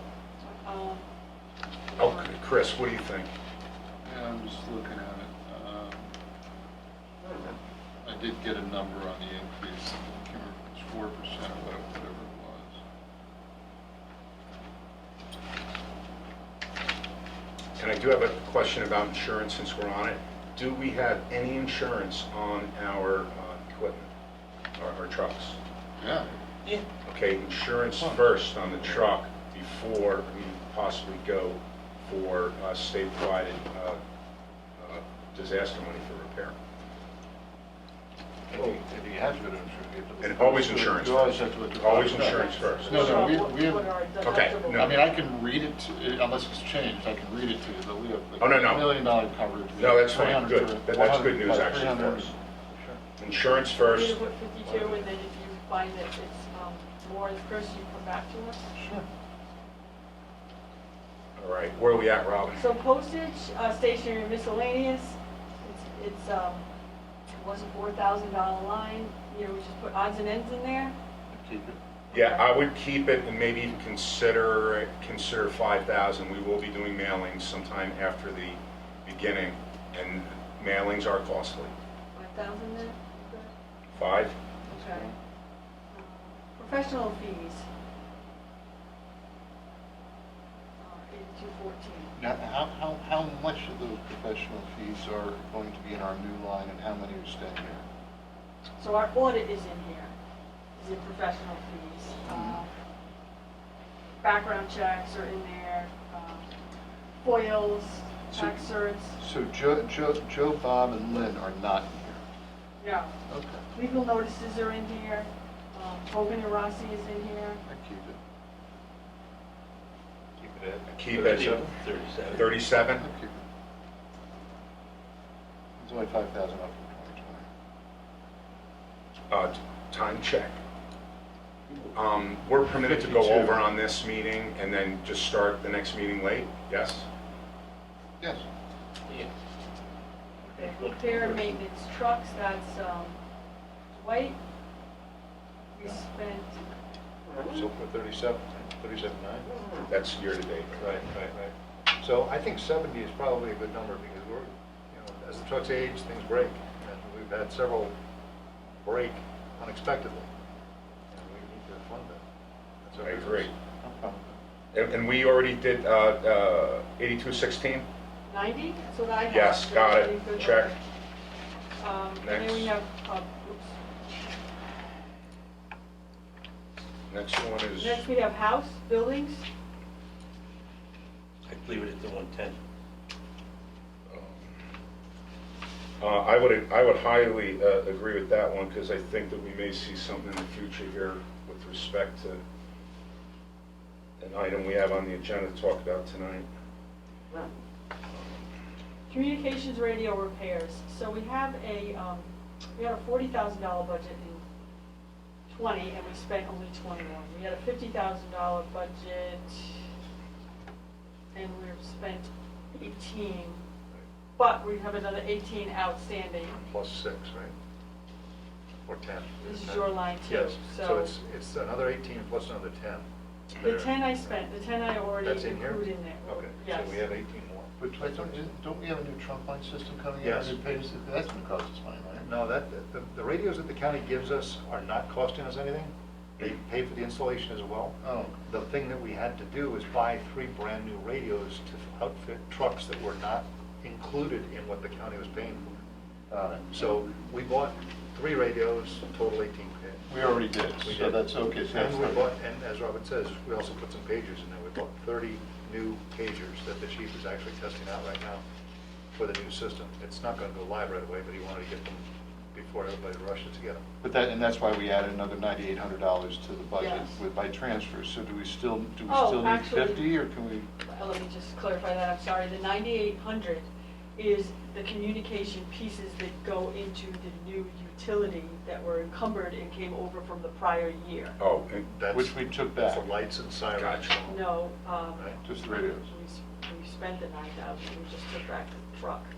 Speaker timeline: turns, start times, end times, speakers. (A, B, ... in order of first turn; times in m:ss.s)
0:00.4-0:01.0 A
0:01.9-0:02.3 A
0:02.0-0:03.3 B
0:04.0-0:06.1 C
0:08.0-0:12.8 C
0:17.8-0:24.1 B
0:24.8-0:25.6 B
0:26.0-0:26.3 C
0:27.0-0:34.0 B
0:34.8-0:36.5 B
0:38.5-0:43.9 C
0:40.2-0:43.4 B
0:42.1-0:44.9 A
0:44.2-0:44.9 B
0:44.7-0:52.3 C
0:48.4-0:49.0 B
0:49.8-0:52.3 B
0:52.7-0:53.0 D
0:53.2-0:54.2 B
0:53.8-0:58.7 A
0:54.6-0:55.0 D
0:58.7-0:59.0 C
1:01.4-1:02.6 B
1:02.5-1:06.6 A
1:07.4-1:10.9 A
1:11.3-1:11.8 C
1:12.1-1:12.4 A
1:12.1-1:21.7 B
1:22.1-1:23.5 A
1:23.9-1:24.4 B
1:24.7-1:25.1 C
1:24.7-1:25.1 A
1:25.9-1:27.6 A
1:30.8-1:32.1 A
1:32.2-1:37.8 C
1:38.8-1:40.1 A
1:40.8-1:42.7 A
1:42.2-1:42.6 C
1:44.2-1:46.5 A
1:47.2-1:49.2 A
1:48.3-1:48.6 C
1:49.2-1:52.2 C
1:52.8-1:53.2 A
1:53.3-1:53.6 C
1:53.7-1:57.6 A
1:57.6-1:58.2 C
2:00.4-2:01.6 D
2:00.9-2:01.6 B
2:01.1-2:02.5 E
2:02.3-2:03.0 B
2:03.0-2:03.4 C
2:05.8-2:07.5 C
2:09.3-2:10.6 B
2:11.9-2:17.1 B
2:12.8-2:13.6 C
2:18.2-2:18.4 C
2:20.4-2:23.2 A
2:20.6-2:21.0 E
2:23.9-2:24.4 A
2:25.7-2:26.6 A
2:27.5-2:29.5 D
2:29.9-2:31.0 B
2:30.8-2:37.9 D
2:38.8-2:40.3 D
2:41.1-2:42.2 D
2:42.8-2:43.5 D
2:43.0-2:43.5 B
2:43.8-2:44.4 C
2:44.7-2:47.9 B
2:48.3-2:50.8 A
2:49.3-2:50.7 B
2:51.8-2:53.7 A
2:52.2-2:52.7 B
2:57.1-2:58.0 B
2:57.8-2:59.5 A
3:01.5-3:02.6 E
3:04.1-3:04.5 B
3:06.0-3:12.4 B
3:14.2-3:16.4 B
3:19.1-3:24.4 A
3:25.5-3:29.8 A
3:31.3-3:33.6 A
3:34.4-3:36.6 A
3:36.6-3:37.5 D
3:38.8-3:44.3 D
3:39.4-3:41.1 A
3:43.6-3:47.0 A
3:45.2-3:48.5 D
3:47.8-3:52.3 C
3:50.2-3:50.8 D
3:52.2-4:05.7 D
3:58.0-3:58.4 C
4:06.3-4:06.8 C
4:06.7-4:10.1 D
4:10.1-4:12.3 C
4:10.8-4:18.4 D
4:19.1-4:23.8 D
4:24.0-4:30.7 C
4:26.8-4:27.2 A
4:29.1-4:30.1 A
4:30.8-4:41.4 A
4:41.4-4:41.9 B
4:41.9-4:44.4 D
4:42.1-4:43.0 C
4:43.8-4:44.2 B
4:44.2-4:49.3 A
4:45.4-4:46.1 C